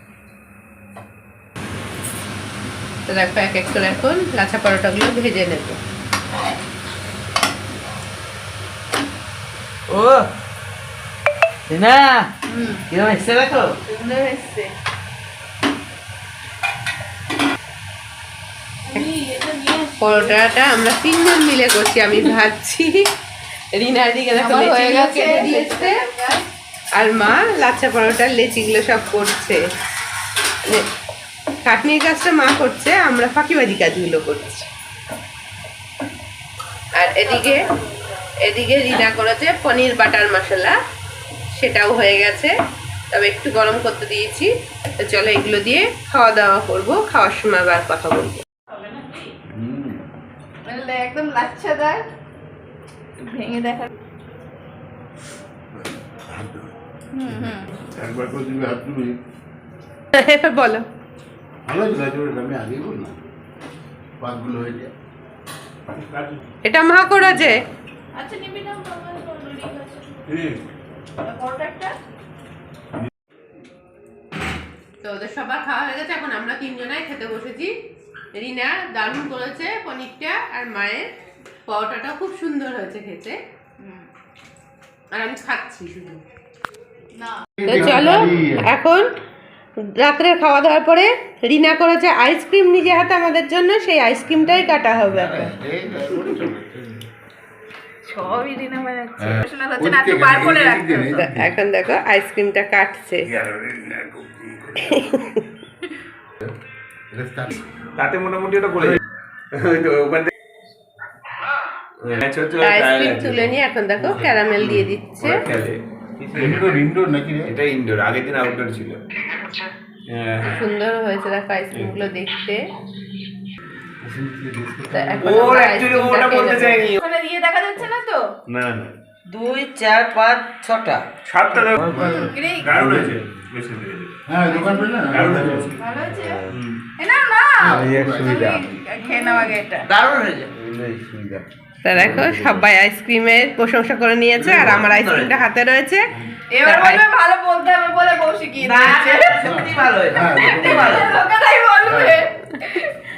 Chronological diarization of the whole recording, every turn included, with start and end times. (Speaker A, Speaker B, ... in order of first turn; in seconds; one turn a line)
Speaker A: 3.1-5.8
Speaker B: 9.9-10.3
Speaker B: 11.7-12.3
Speaker C: 12.5-12.8
Speaker B: 12.9-13.8
Speaker C: 13.9-14.7
Speaker C: 18.9-20.1
Speaker A: 20.0-23.0
Speaker A: 23.7-26.0
Speaker C: 24.3-26.4
Speaker A: 26.9-29.6
Speaker A: 31.6-34.7
Speaker A: 37.0-37.7
Speaker C: 37.5-38.0
Speaker A: 38.4-40.8
Speaker A: 41.5-42.5
Speaker A: 43.1-48.5
Speaker C: 48.8-49.2
Speaker D: 49.5-50.0
Speaker C: 50.6-52.1
Speaker C: 53.2-53.9
Speaker D: 56.3-56.7
Speaker C: 57.1-57.7
Speaker D: 57.9-59.2
Speaker A: 60.1-60.9
Speaker D: 61.6-63.2
Speaker D: 64.2-64.9
Speaker E: 65.9-66.3
Speaker A: 66.6-67.6
Speaker C: 68.1-70.2
Speaker E: 70.3-70.6
Speaker C: 71.2-72.0
Speaker A: 75.0-77.7
Speaker A: 78.3-81.1
Speaker A: 81.7-83.4
Speaker C: 83.8-84.1
Speaker A: 85.1-86.2
Speaker C: 87.2-87.5
Speaker D: 87.6-88.7
Speaker A: 87.6-89.1
Speaker A: 90.0-95.5
Speaker D: 95.0-97.0
Speaker C: 98.0-101.2
Speaker D: 99.2-101.5
Speaker A: 101.2-103.3
Speaker D: 103.3-104.9
Speaker A: 104.9-105.4
Speaker D: 107.1-107.6
Speaker E: 108.0-109.0
Speaker E: 109.5-110.3
Speaker E: 112.0-113.5
Speaker A: 112.6-115.4
Speaker E: 114.7-116.8
Speaker D: 116.3-117.5
Speaker E: 117.4-119.0
Speaker E: 120.1-120.6
Speaker A: 120.4-122.6
Speaker D: 124.0-125.4
Speaker A: 124.9-126.9
Speaker E: 125.2-127.0
Speaker C: 127.0-128.2
Speaker E: 128.5-128.9
Speaker B: 129.3-131.0
Speaker E: 131.2-132.0
Speaker D: 131.8-133.1
Speaker C: 131.8-132.8
Speaker E: 132.6-134.1
Speaker D: 134.3-135.7
Speaker C: 134.4-135.1
Speaker E: 135.1-135.8
Speaker C: 135.8-136.4
Speaker B: 136.2-136.5
Speaker E: 136.5-136.8
Speaker C: 137.0-139.9
Speaker D: 137.6-138.7
Speaker B: 137.7-141.4
Speaker A: 141.8-146.1
Speaker B: 142.0-142.6
Speaker D: 142.0-142.2
Speaker B: 144.4-145.3
Speaker C: 146.5-149.5
Speaker A: 146.6-147.0
Speaker B: 148.6-151.1
Speaker D: 149.3-151.2
Speaker C: 150.3-152.9
Speaker D: 151.8-152.2